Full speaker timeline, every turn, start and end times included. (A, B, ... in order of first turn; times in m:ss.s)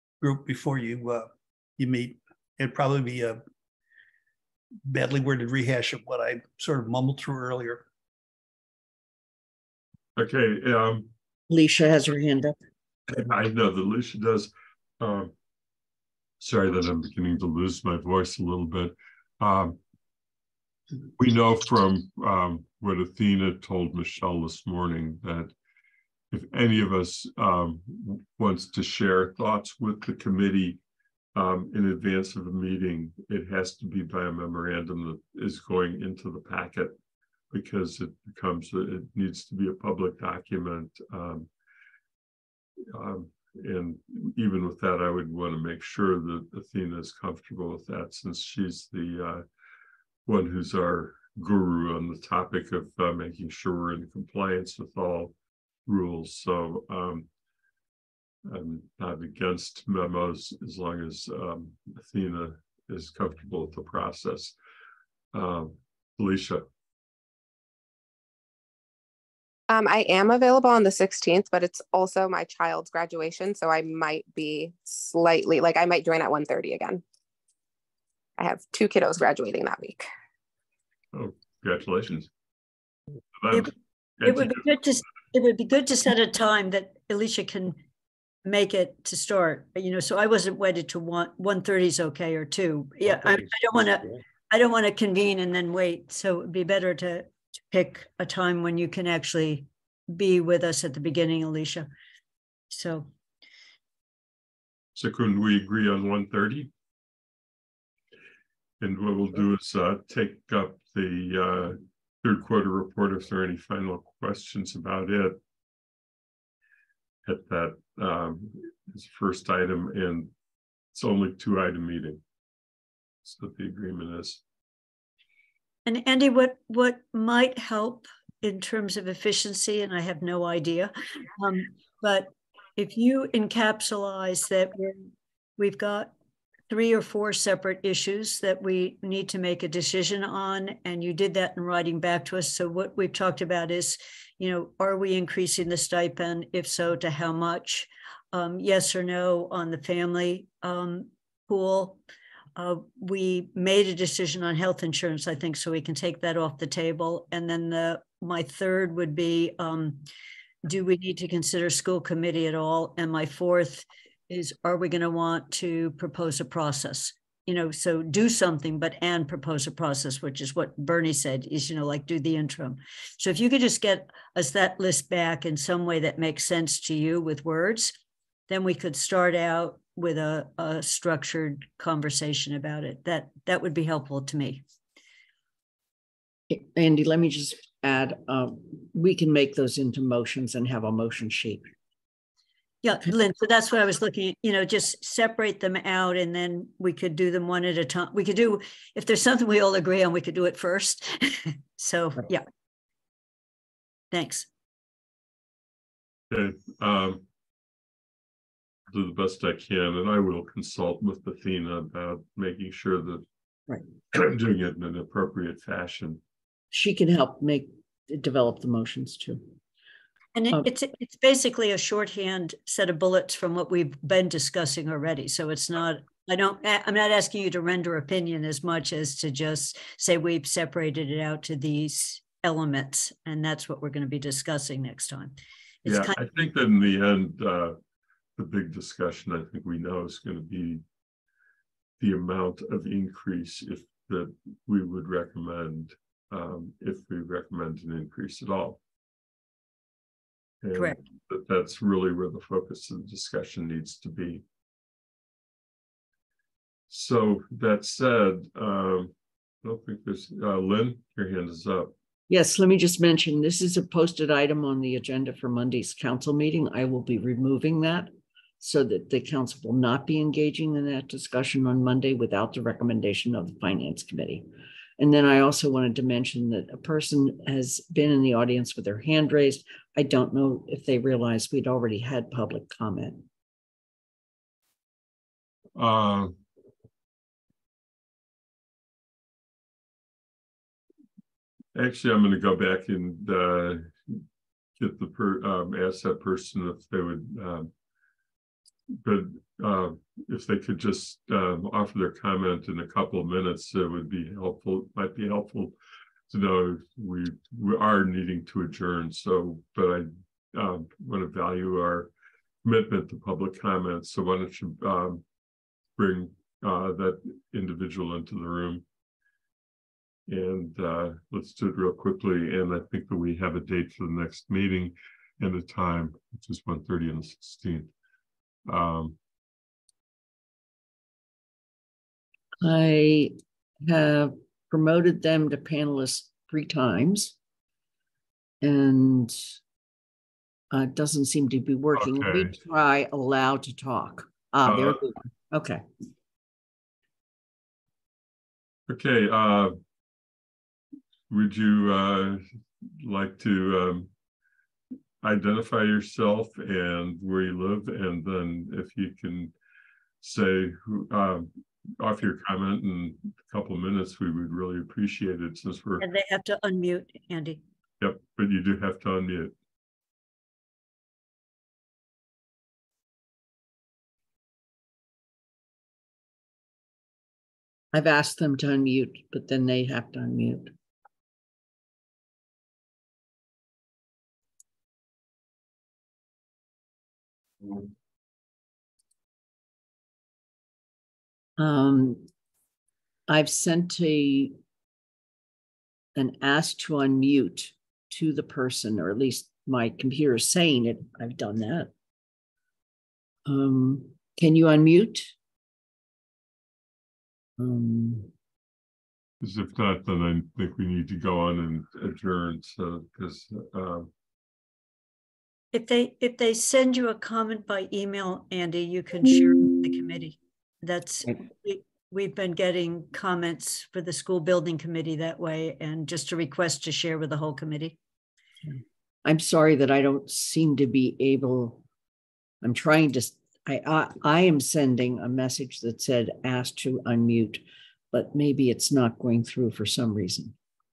0:00.2-0:03.4 A
0:04.9-0:07.8 A
0:10.2-0:11.1 B
0:11.5-0:12.6 C
0:13.1-0:15.3 B
0:16.4-0:19.8 B
0:21.2-0:25.5 B
0:26.3-0:30.8 B
0:31.3-0:36.9 B
0:37.5-0:41.5 B
0:42.9-0:49.4 B
0:50.3-0:55.3 B
0:55.8-0:57.3 B
0:58.4-1:04.6 B
1:05.3-1:06.6 B
1:09.7-1:17.0 D
1:18.4-1:20.1 D
1:21.1-1:22.3 B
1:23.4-1:24.6 B
1:24.2-1:27.8 E
1:28.4-1:41.9 E
1:42.7-1:43.1 E
1:45.0-1:46.7 B
1:48.8-1:55.4 B
1:57.2-2:00.3 B
2:00.9-2:02.2 B
2:03.2-2:04.4 B
2:05.8-2:16.1 E
2:16.7-2:32.0 E
2:32.6-2:40.0 E
2:40.6-2:58.0 E
2:58.5-3:04.6 E
3:06.5-3:11.7 C
3:12.8-3:22.4 E
3:24.1-3:24.5 E
3:26.3-3:27.2 B
3:28.9-3:33.2 B
3:34.1-3:36.2 B
3:36.7-3:39.6 C
3:40.3-3:56.2 E
3:55.8-3:57.8 B
3:58.4-4:00.8 B
4:02.0-4:08.8 B
4:10.6-4:14.4 B
4:16.9-4:21.9 B
4:22.3-4:34.5 C
4:35.0-4:43.3 C
4:45.8-4:46.3 B
4:51.7-4:54.2 B
4:54.8-4:57.7 B
4:58.9-5:05.7 B
5:06.3-5:12.1 B
5:12.6-5:15.2 B
5:16.0-5:18.8 B
5:20.3-5:27.9 B
5:28.7-5:29.2 B
5:32.6-5:37.4 C
5:38.6-5:39.5 C
5:40.7-5:45.8 C
5:42.0-5:42.6 B
5:44.6-5:45.0 B
5:48.9-5:49.7 B
5:51.3-5:52.4 B
5:53.0-5:54.1 B
5:55.2-5:59.5 B
6:00.2-6:06.0 B
6:06.0-6:07.6 E
6:08.0-6:09.5 B
6:17.9-6:20.7 C
6:31.6-6:32.3 C
6:33.3-6:34.6 C
6:36.1-6:41.9 C
6:43.5-6:45.3 C
6:47.6-6:48.3 C
6:49.4-6:54.1 B
6:55.7-7:08.0 E
7:08.7-7:11.8 C
7:12.6-7:20.6 C